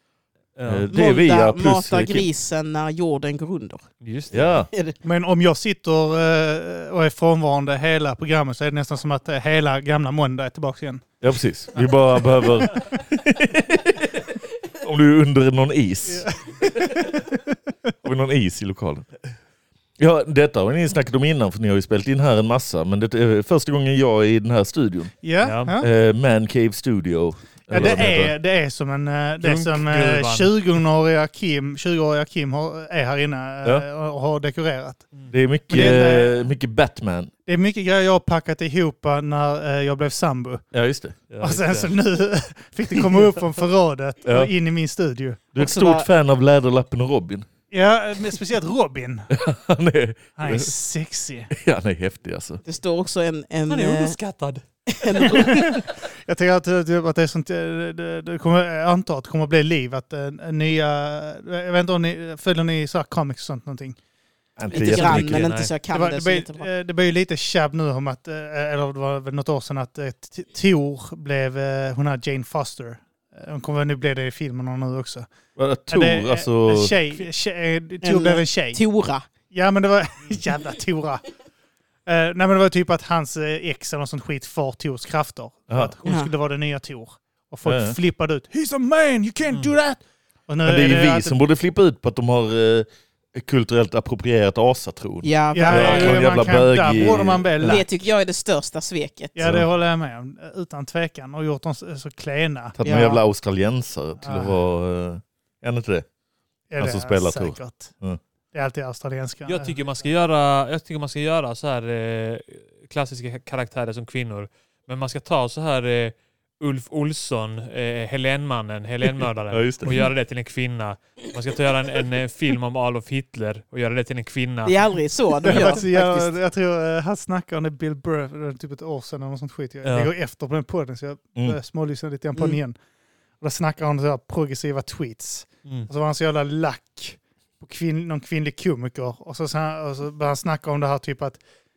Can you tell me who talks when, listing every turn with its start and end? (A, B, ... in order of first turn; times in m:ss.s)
0:00.6-0:00.9 A
0:00.6-0:02.3 B
0:00.9-0:03.9 C
0:04.0-0:04.6 A
0:04.3-0:04.7 B
0:05.0-0:11.0 D
0:11.2-0:17.0 B
0:16.1-0:17.5 D
0:18.0-0:19.1 B
0:20.0-0:25.2 B
0:25.2-0:25.9 D
0:25.4-0:25.8 A
0:25.8-0:28.3 B
0:27.7-0:35.1 D
0:29.4-0:30.5 A
0:35.3-0:37.3 B
0:35.7-0:36.4 D
0:37.5-0:40.6 D
0:40.7-0:41.2 B
0:41.3-0:41.9 A
0:41.4-0:45.4 D
0:44.2-0:44.5 B
0:45.5-0:47.5 B
0:45.6-0:46.1 C
0:47.7-0:49.3 D
0:49.3-0:50.7 B
0:50.4-0:51.5 D
0:51.5-0:52.6 B
0:52.6-0:54.2 C
0:53.7-0:54.6 A
0:54.9-0:55.8 C
0:55.3-1:04.0 D
1:04.6-1:05.5 B
1:04.7-1:06.7 C
1:04.7-1:05.7 A
1:05.9-1:15.3 D
1:15.6-1:17.0 B
1:15.9-1:18.8 D
1:18.0-1:19.3 C
1:19.5-1:21.2 D
1:22.1-1:31.4 D
1:26.0-1:26.3 C
1:27.6-1:28.0 B
1:30.6-1:37.8 B
1:35.2-1:36.2 C
1:35.5-1:37.9 D
1:37.6-1:39.5 C
1:39.4-1:42.8 D
1:42.8-1:46.1 B
1:42.8-1:43.2 C
1:44.2-1:44.6 D
1:46.7-1:47.9 D
1:46.8-1:48.2 B
1:48.5-1:49.8 D
1:49.5-2:04.8 A
1:59.5-2:00.1 B
2:04.6-2:06.4 C
2:05.4-2:12.8 D
2:09.8-2:10.1 A
2:13.4-2:21.4 D